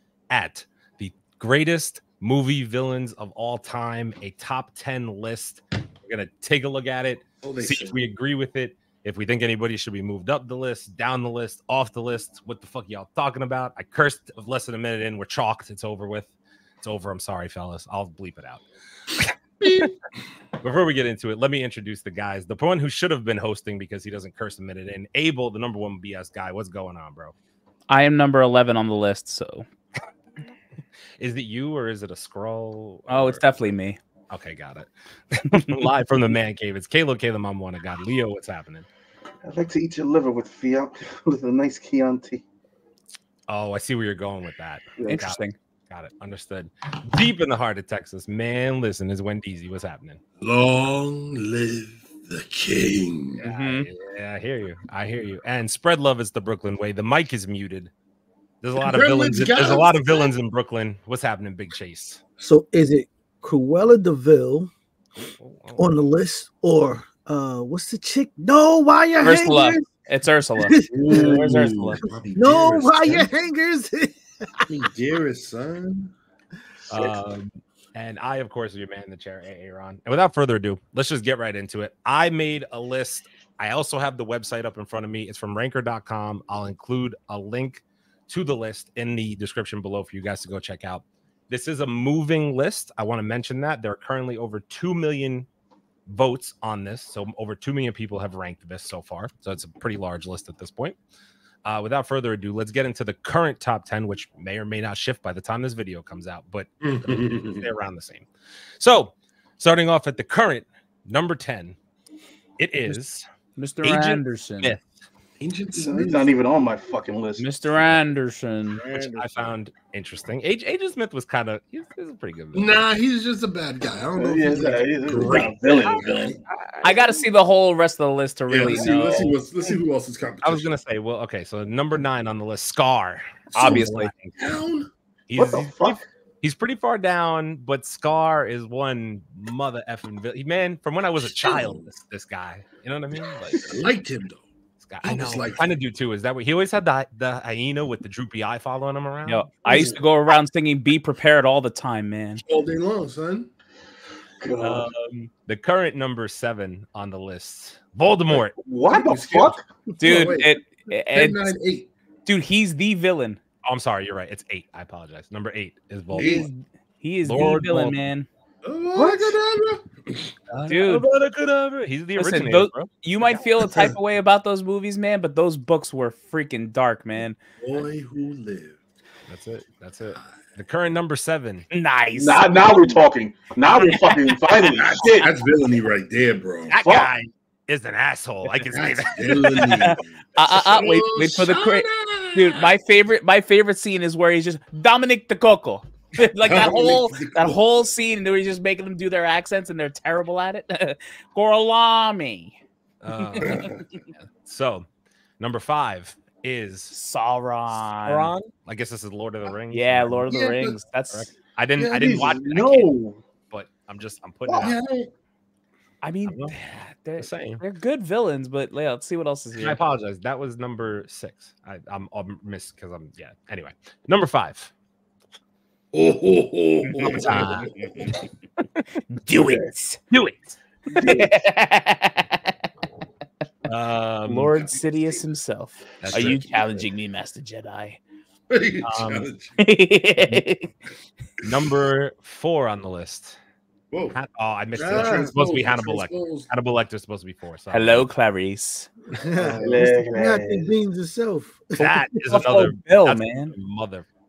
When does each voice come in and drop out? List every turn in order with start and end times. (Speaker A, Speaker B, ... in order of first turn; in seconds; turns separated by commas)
Speaker A: 0.3-16.3, Speaker B: 7.4-8.0, Speaker A: 16.8-18.6, Speaker A: 19.2-19.9, Speaker A: 20.6-27.3, Speaker C: 27.9-29.6, Speaker A: 31.2-33.5, Speaker C: 33.1-34.0, Speaker A: 34.3-38.9, Speaker D: 39.4-42.4, Speaker A: 43.5-50.2, Speaker C: 45.1-45.5, Speaker B: 50.4-53.5, Speaker A: 53.4-57.9, Speaker C: 53.5-53.9, Speaker A: 58.6-62.2, Speaker B: 58.8-60.3, Speaker E: 62.4-64.7, Speaker A: 65.4-65.9, Speaker E: 65.8-69.9, Speaker C: 69.2-72.0, Speaker E: 70.6-71.5, Speaker B: 70.9-73.3, Speaker E: 72.3-74.8, Speaker B: 74.7-76.1, Speaker A: 76.9-95.5, Speaker D: 76.9-77.2, Speaker A: 96.1-101.0, Speaker A: 101.7-108.3, Speaker B: 106.8-107.7, Speaker A: 108.8-111.8, Speaker A: 112.6-113.2, Speaker C: 113.6-114.8, Speaker A: 113.8-115.0, Speaker B: 115.4-116.3, Speaker D: 115.7-117.5, Speaker C: 117.4-118.8, Speaker A: 117.8-118.0, Speaker E: 118.8-119.5, Speaker A: 119.0-122.8, Speaker B: 122.5-126.4, Speaker D: 124.2-126.2, Speaker A: 125.9-127.2, Speaker C: 126.8-129.4, Speaker B: 128.5-130.8, Speaker A: 130.4-134.4, Speaker B: 133.5-134.9, Speaker C: 133.5-134.1, Speaker A: 135.3-143.8, Speaker D: 135.4-136.0, Speaker B: 141.2-141.9, Speaker D: 143.5-143.8, Speaker B: 143.6-144.4, Speaker A: 144.8-149.8, Speaker B: 145.0-145.7, Speaker C: 149.3-152.4, Speaker B: 149.7-150.0, Speaker B: 152.4-153.5, Speaker D: 154.4-154.9, Speaker A: 154.6-158.6, Speaker D: 158.5-159.7, Speaker B: 158.9-160.6, Speaker C: 160.0-161.5, Speaker B: 161.1-161.9, Speaker C: 162.3-163.4, Speaker A: 163.7-166.5, Speaker C: 166.1-168.3, Speaker B: 166.2-166.5, Speaker A: 167.3-168.0, Speaker B: 168.6-170.3, Speaker D: 169.0-169.3, Speaker A: 170.5-172.9, Speaker C: 170.7-171.1, Speaker C: 172.2-177.4, Speaker B: 173.6-173.9, Speaker B: 177.6-178.8, Speaker A: 179.3-181.7, Speaker C: 181.7-182.6, Speaker D: 182.2-185.3, Speaker B: 184.8-186.8, Speaker A: 186.7-189.9, Speaker D: 186.8-187.1, Speaker B: 188.7-192.7, Speaker C: 189.6-202.6, Speaker B: 196.4-197.6, Speaker A: 203.0-204.9, Speaker C: 203.2-204.0, Speaker B: 203.4-203.8, Speaker A: 205.4-207.0, Speaker C: 206.9-208.3, Speaker A: 207.7-210.3, Speaker C: 209.7-211.3, Speaker B: 210.3-210.8, Speaker A: 211.1-212.9, Speaker D: 211.8-213.2, Speaker A: 213.5-214.8, Speaker D: 214.5-214.8, Speaker B: 214.6-215.1, Speaker C: 216.0-219.8, Speaker A: 216.3-216.6, Speaker A: 217.2-217.6, Speaker A: 219.6-224.7, Speaker B: 225.9-228.2, Speaker C: 226.9-228.1, Speaker A: 227.2-227.7, Speaker C: 229.1-230.0, Speaker D: 229.4-229.7, Speaker A: 230.1-231.1, Speaker D: 230.9-231.4, Speaker C: 230.9-232.5, Speaker A: 233.7-234.6, Speaker C: 234.3-238.0, Speaker A: 236.0-236.5, Speaker B: 236.1-236.4, Speaker B: 238.5-239.6, Speaker A: 238.8-239.3, Speaker C: 239.6-240.7, Speaker A: 241.4-243.4, Speaker B: 243.9-244.2, Speaker A: 244.1-248.1, Speaker E: 244.8-245.3, Speaker B: 244.8-246.5, Speaker C: 247.7-248.9, Speaker B: 249.1-249.9, Speaker E: 249.2-252.3, Speaker D: 249.6-250.7, Speaker A: 251.8-254.1, Speaker C: 252.2-253.6